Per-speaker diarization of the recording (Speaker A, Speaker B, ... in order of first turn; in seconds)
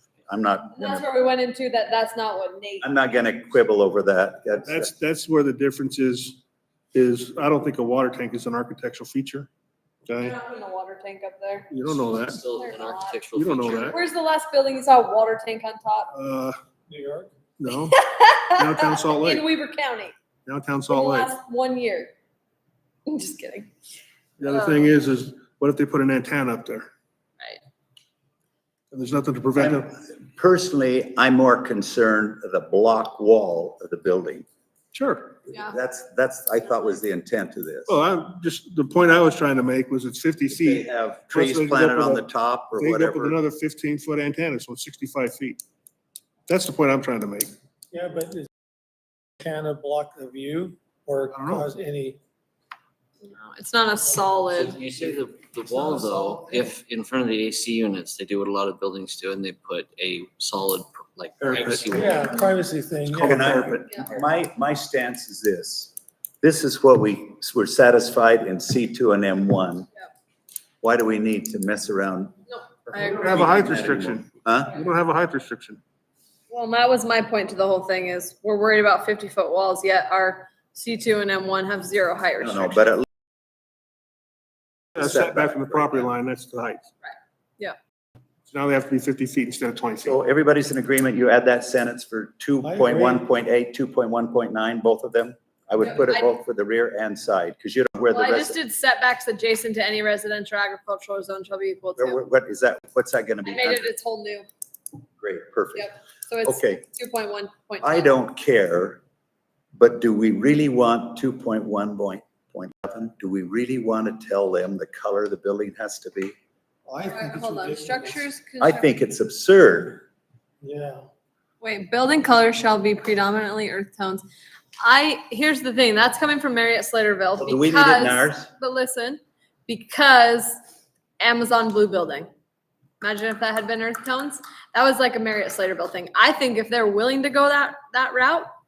Speaker A: 0.3-1.1, 2.8-4.9, 29.6-34.5, 35.5-38.0, 40.5-43.4, 63.1-69.9, 70.8-72.3, 72.9-74.7, 82.4-83.1, 85.0-86.1, 90.0-98.6, 102.0-103.9, 105.2-106.8, 107.8-109.0, 109.7-116.3, 118.6-120.0, 127.4-128.5
Speaker B: 0.8-2.9, 10.2-11.8, 12.3-13.2, 13.7-16.1, 17.9-20.1, 20.9-22.1, 23.1-23.7, 24.5-24.9, 53.2-54.8, 72.5-73.6, 76.5-82.9, 87.0-87.8, 95.9-96.3, 98.1-102.2, 103.5-104.5, 105.8-108.1, 117.0-118.9, 121.6-124.2, 124.8-130.6, 131.2-132.3, 133.0-138.5
Speaker C: 4.6-6.4, 6.9-9.5, 10.1-10.4, 11.7-12.4, 13.3-14.0, 16.1-16.6, 17.6-18.0, 18.6-19.4, 20.5-21.3, 24.4-26.9, 28.9-29.9, 34.9-35.4, 37.9-42.2, 42.8-45.6, 46.5-47.5, 51.3-51.7, 61.5-61.9, 73.0-75.8, 85.0-86.9, 88.5-90.2
Speaker D: 11.9-14.0, 54.5-62.4
Speaker E: 16.9-17.3, 47.9-48.5, 49.4-52.2, 55.8-56.6, 61.9-63.8, 92.6-93.2, 116.9-118.2, 120.6-121.1